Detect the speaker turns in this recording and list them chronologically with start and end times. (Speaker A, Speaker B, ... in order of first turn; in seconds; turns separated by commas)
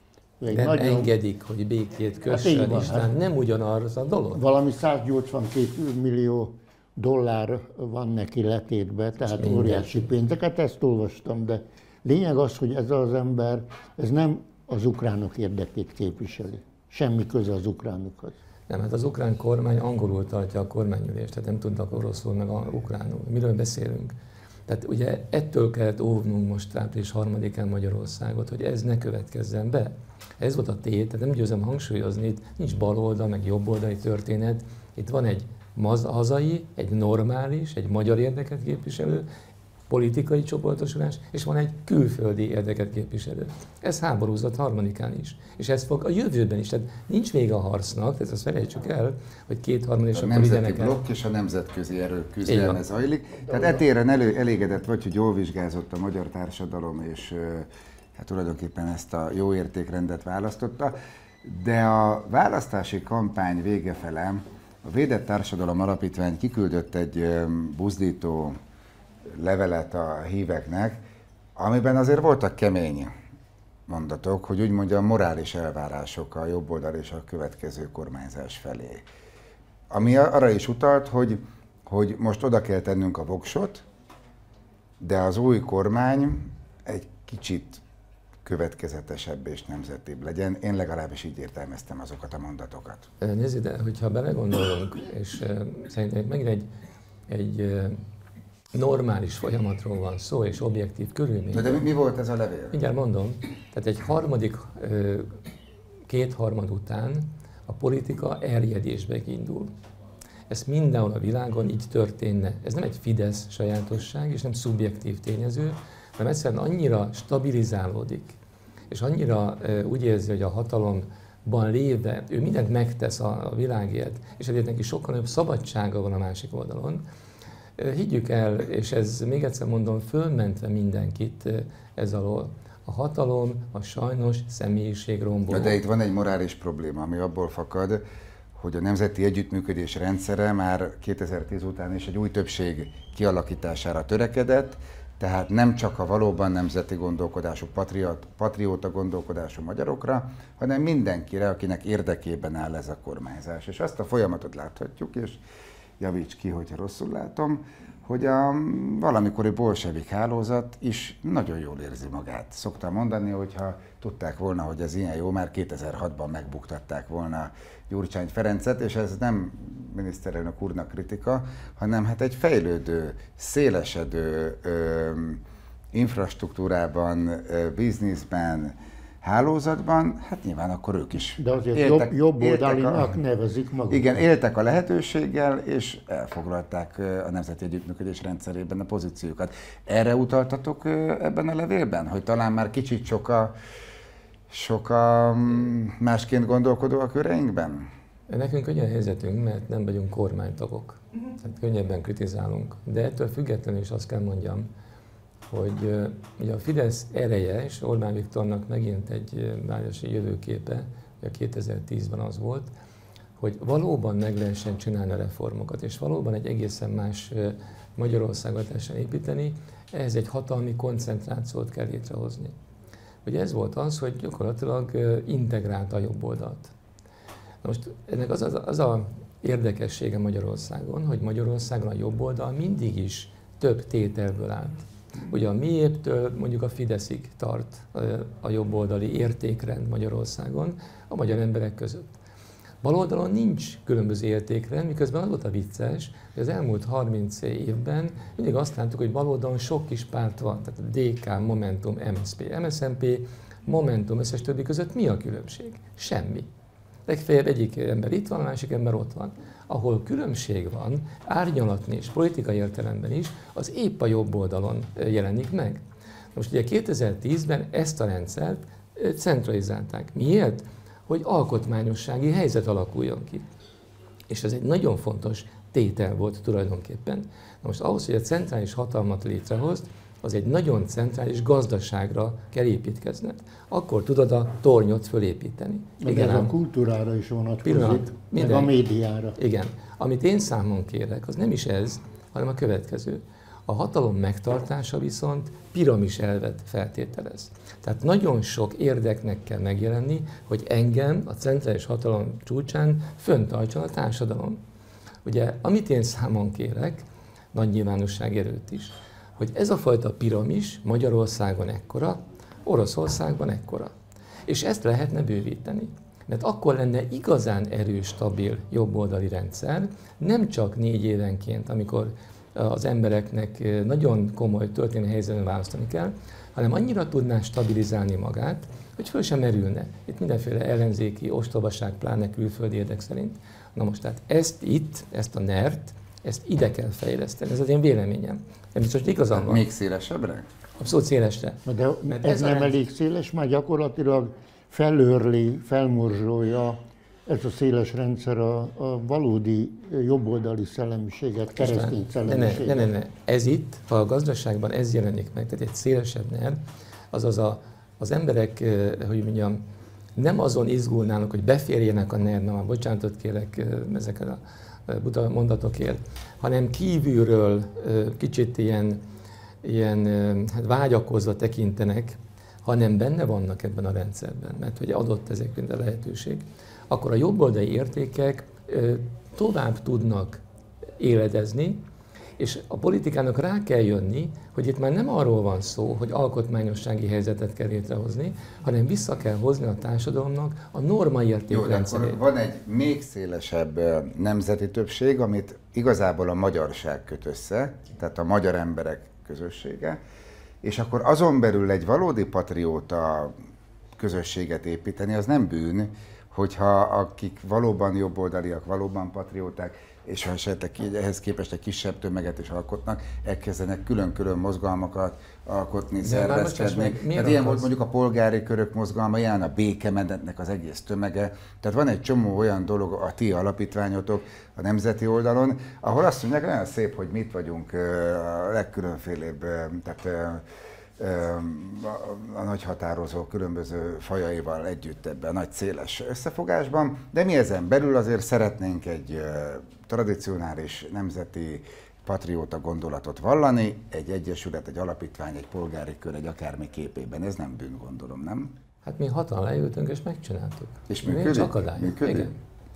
Speaker A: 0.4-1.1, Speaker B: 0.5-4.4, Speaker A: 2.2-3.1, Speaker A: 4.3-18.4, Speaker B: 9.2-10.1, Speaker B: 18.7-24.1, Speaker B: 24.7-39.3, Speaker B: 39.9-51.0, Speaker C: 50.1-68.6, Speaker B: 52.4-52.8, Speaker A: 53.5-53.8, Speaker C: 69.3-71.0, Speaker C: 71.5-73.1, Speaker C: 73.9-79.0, Speaker C: 79.9-83.8, Speaker C: 85.0-87.8, Speaker C: 88.4-93.1, Speaker B: 93.2-96.7, Speaker B: 97.3-98.0, Speaker B: 98.7-101.8, Speaker C: 101.5-102.8, Speaker B: 102.7-105.4, Speaker B: 106.1-109.7, Speaker B: 110.5-118.3, Speaker B: 118.9-127.0, Speaker B: 127.8-135.8, Speaker C: 135.5-138.0, Speaker C: 138.6-155.4, Speaker C: 156.0-175.4, Speaker C: 175.9-183.2, Speaker A: 181.4-184.2, Speaker C: 183.9-193.5, Speaker C: 194.5-197.9, Speaker B: 198.3-204.7, Speaker B: 205.5-212.7, Speaker B: 213.4-222.5, Speaker B: 223.2-226.7, Speaker B: 227.6-242.1, Speaker B: 242.8-256.5, Speaker B: 257.1-265.8, Speaker B: 266.3-273.4, Speaker B: 274.3-286.5, Speaker A: 286.0-289.4, Speaker B: 287.6-288.7, Speaker B: 289.4-304.6, Speaker B: 305.2-313.9, Speaker B: 314.4-339.6, Speaker C: 339.4-340.5, Speaker B: 340.8-342.7, Speaker A: 341.6-352.9, Speaker B: 351.6-356.6, Speaker B: 357.1-359.6, Speaker B: 360.1-369.0, Speaker B: 369.6-380.4, Speaker B: 381.0-381.8, Speaker B: 382.4-392.2, Speaker C: 391.5-400.0, Speaker C: 400.6-403.3, Speaker C: 404.0-430.4, Speaker B: 416.0-417.7, Speaker C: 431.0-448.5, Speaker B: 448.8-452.4, Speaker C: 450.9-452.3